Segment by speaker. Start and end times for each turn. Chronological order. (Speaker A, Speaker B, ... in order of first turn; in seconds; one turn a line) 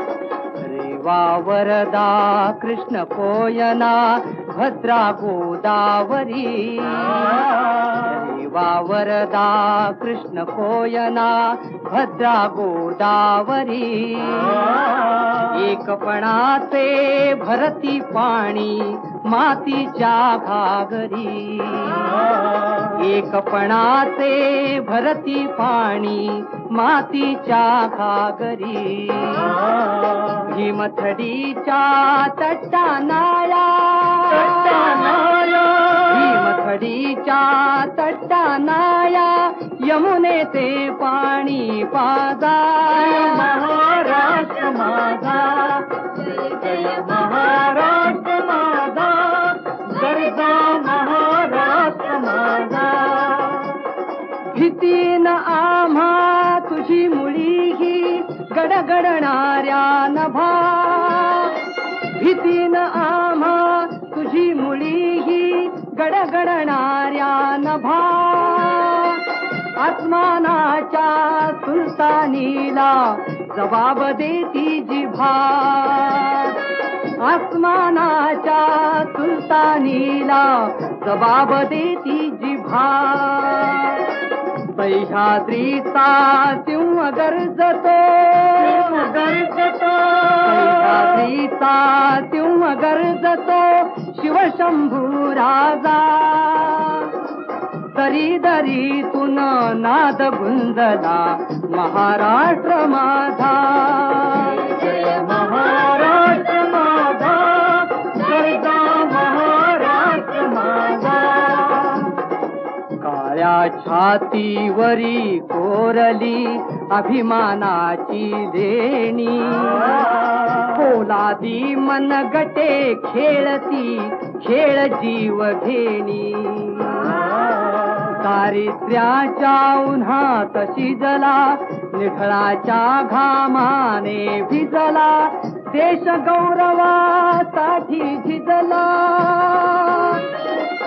Speaker A: 0.6-29.7
Speaker B: 29.8-30.4
Speaker A: 30.4-35.0
Speaker B: 34.4-36.3
Speaker A: 36.0-43.5
Speaker B: 42.9-53.9
Speaker A: 54.5-76.7
Speaker A: 77.2-88.8
Speaker B: 88.7-91.1
Speaker A: 90.4-97.2
Speaker A: 97.9-104.7
Speaker B: 104.5-112.2
Speaker A: 113.0-127.5
Speaker A: 128.0-140.4